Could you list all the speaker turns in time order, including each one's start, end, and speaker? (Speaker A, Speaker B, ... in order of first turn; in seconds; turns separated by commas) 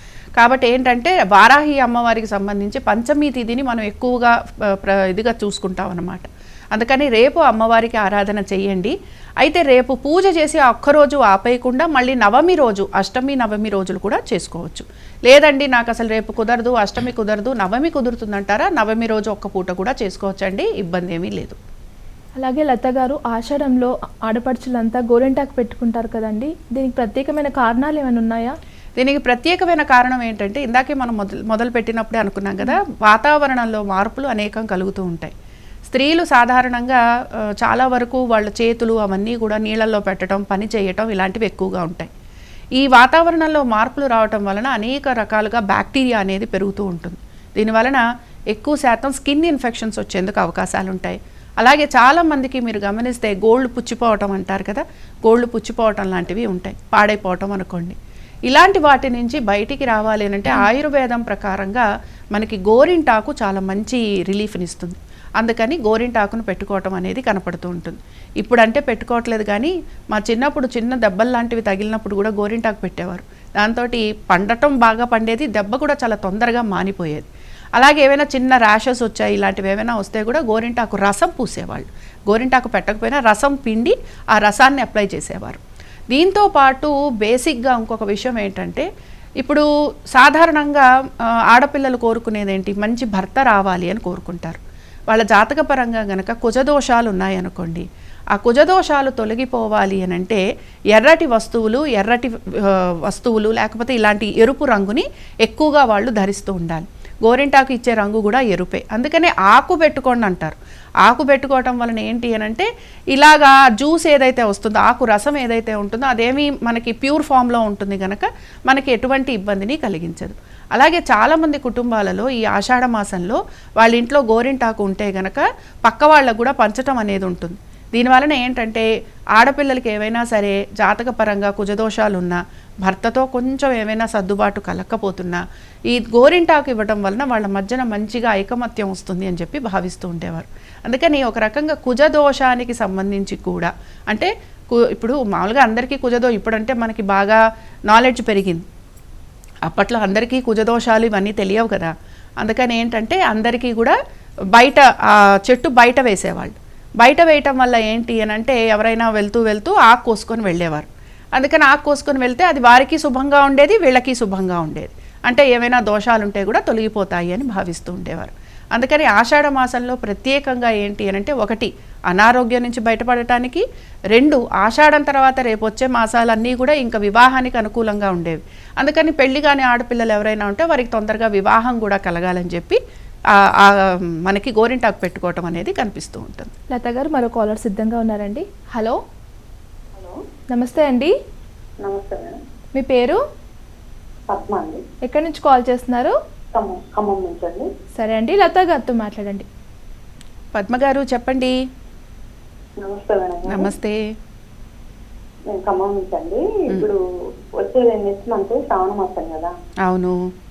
Speaker A: 0.4-21.6, Speaker B: 22.4-28.5, Speaker A: 29.0-35.3, Speaker A: 35.9-37.0, Speaker A: 37.6-42.1, Speaker A: 42.8-58.0, Speaker A: 58.5-85.6, Speaker A: 86.1-88.9, Speaker A: 89.4-90.9, Speaker A: 91.5-100.4, Speaker A: 100.9-128.8, Speaker A: 129.3-147.4, Speaker A: 147.9-148.6, Speaker A: 149.7-154.0, Speaker A: 154.5-154.9, Speaker A: 155.4-182.8, Speaker A: 183.4-186.5, Speaker B: 186.7-189.0, Speaker C: 189.9-190.2, Speaker B: 190.5-191.1, Speaker C: 191.8-192.4, Speaker B: 192.7-193.2, Speaker C: 194.3-194.8, Speaker B: 195.0-196.1, Speaker C: 196.5-197.7, Speaker B: 197.9-199.4, Speaker A: 200.5-201.5, Speaker C: 202.8-203.7, Speaker A: 203.5-204.0, Speaker C: 205.5-207.0, Speaker C: 207.6-209.5, Speaker A: 209.8-210.2